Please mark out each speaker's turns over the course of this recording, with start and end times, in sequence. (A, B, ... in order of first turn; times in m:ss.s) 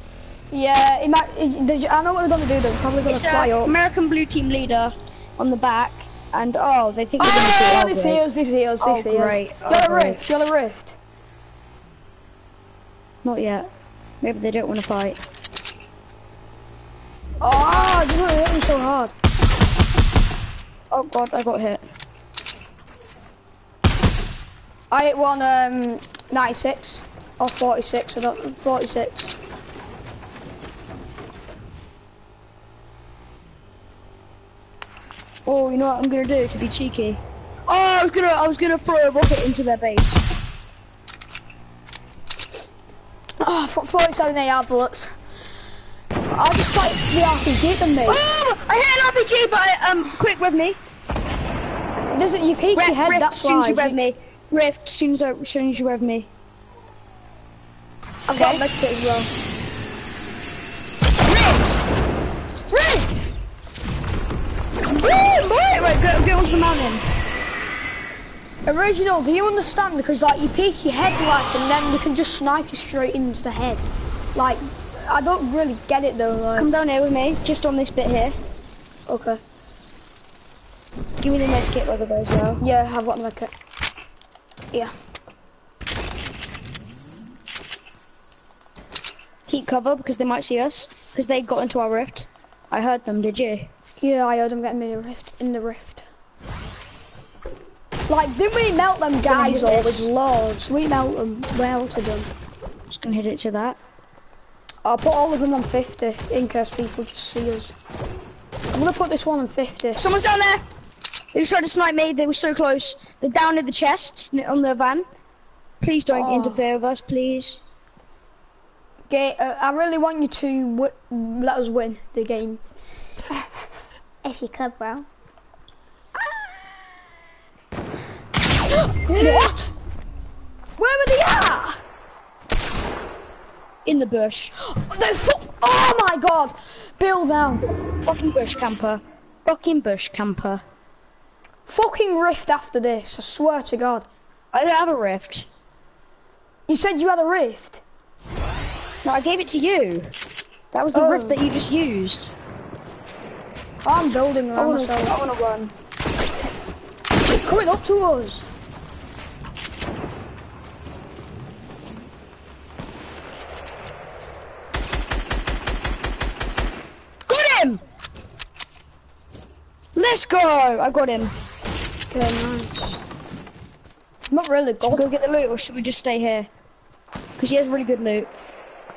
0:00.5-0:03.8 A
0:03.1-0:08.2 B
0:07.2-0:11.0 A
0:08.8-0:10.2 B
0:13.2-0:13.7 B
0:14.2-0:15.2 B
0:17.4-0:19.2 A
0:20.9-0:21.8 B
0:24.9-0:29.3 A
0:35.5-0:40.3 B
0:43.4-0:45.1 A
0:46.3-0:48.2 A
0:48.1-0:50.8 B
0:52.1-0:54.0 A
0:52.8-0:56.3 B
0:58.3-0:59.3 A
0:58.3-0:58.7 B
1:01.2-1:01.8 B
1:02.7-1:03.3 A
1:04.9-1:07.1 B
1:08.7-1:16.7 A
1:16.6-1:18.4 B
1:19.1-1:19.4 A
1:21.2-1:22.6 B
1:22.6-1:23.5 A
1:29.5-1:33.7 B
1:34.0-1:36.1 A
1:38.1-1:42.3 A
1:39.2-1:40.1 B
1:42.9-1:43.8 B
1:44.8-1:47.8 A
1:48.7-1:50.0 A
1:50.0-1:50.6 B
1:51.3-1:55.1 B
1:55.8-1:57.6 B
1:56.1-1:56.6 A
1:59.1-2:02.6 A
2:04.2-2:05.1 A
2:08.8-2:09.7 A
2:09.2-2:09.5 B
2:10.8-2:11.8 A
2:13.8-2:14.5 B
2:14.6-2:17.6 A
2:18.0-2:20.6 B
2:21.7-2:24.1 A
2:24.5-2:25.5 B
2:26.7-2:27.8 A
2:29.0-2:30.1 B
2:30.7-2:32.3 B
2:30.9-2:31.4 A
2:33.8-2:35.2 A
2:34.6-2:35.8 B
2:37.4-2:38.5 A
2:47.3-2:47.8 B
2:50.0-2:51.4 B
2:52.1-2:53.0 A
2:54.3-2:55.1 A
2:54.9-2:56.5 B
2:57.4-2:58.3 B